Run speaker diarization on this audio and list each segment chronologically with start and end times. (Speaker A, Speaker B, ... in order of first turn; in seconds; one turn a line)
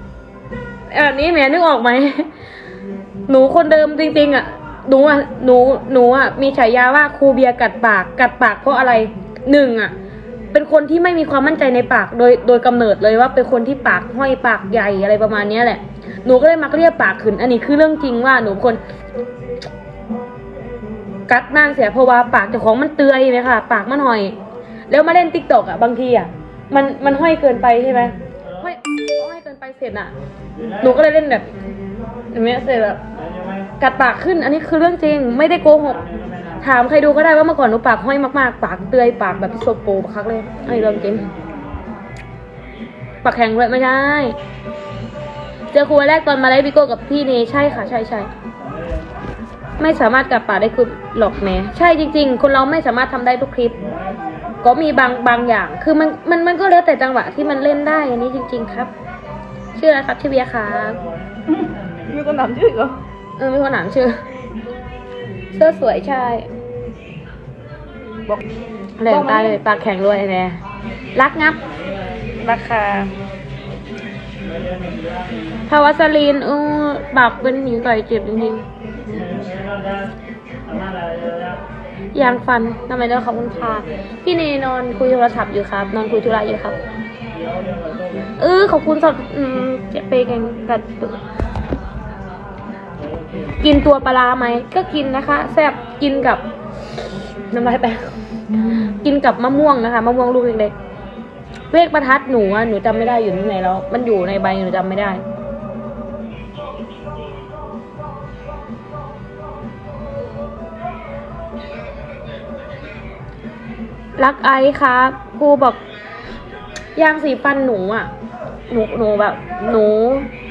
Speaker A: 0.9-2.3
Speaker A: 3.3-9.9
Speaker A: 10.5-18.8
Speaker A: 21.3-24.4
Speaker A: 24.9-30.1
Speaker B: 30.6-31.0
Speaker A: 30.8-31.5
Speaker A: 32.3-33.0
Speaker B: 33.2-33.7
Speaker A: 33.8-36.0
Speaker B: 36.0-36.6
Speaker A: 36.6-41.3
Speaker B: 40.6-41.8
Speaker A: 43.2-44.4
Speaker A: 45.7-48.3
Speaker A: 49.8-53.9
Speaker B: 54.0-54.3
Speaker A: 54.6-58.9
Speaker A: 59.8-61.0
Speaker C: 61.5-63.0
Speaker A: 63.4-64.2
Speaker A: 65.5-66.5
Speaker A: 69.0-70.6
Speaker C: 69.1-69.6
Speaker A: 71.2-71.6
Speaker A: 72.4-73.1
Speaker B: 74.4-75.6
Speaker A: 75.7-78.7
Speaker B: 79.1-80.1
Speaker B: 80.7-81.6
Speaker A: 82.1-86.8
Speaker B: 87.3-88.3
Speaker A: 88.4-91.2
Speaker B: 93.0-93.6
Speaker A: 93.6-96.4
Speaker A: 97.5-98.2
Speaker A: 98.7-100.7
Speaker A: 101.7-105.2
Speaker A: 114.2-115.8
Speaker A: 117.0-118.1
Speaker A: 118.7-120.3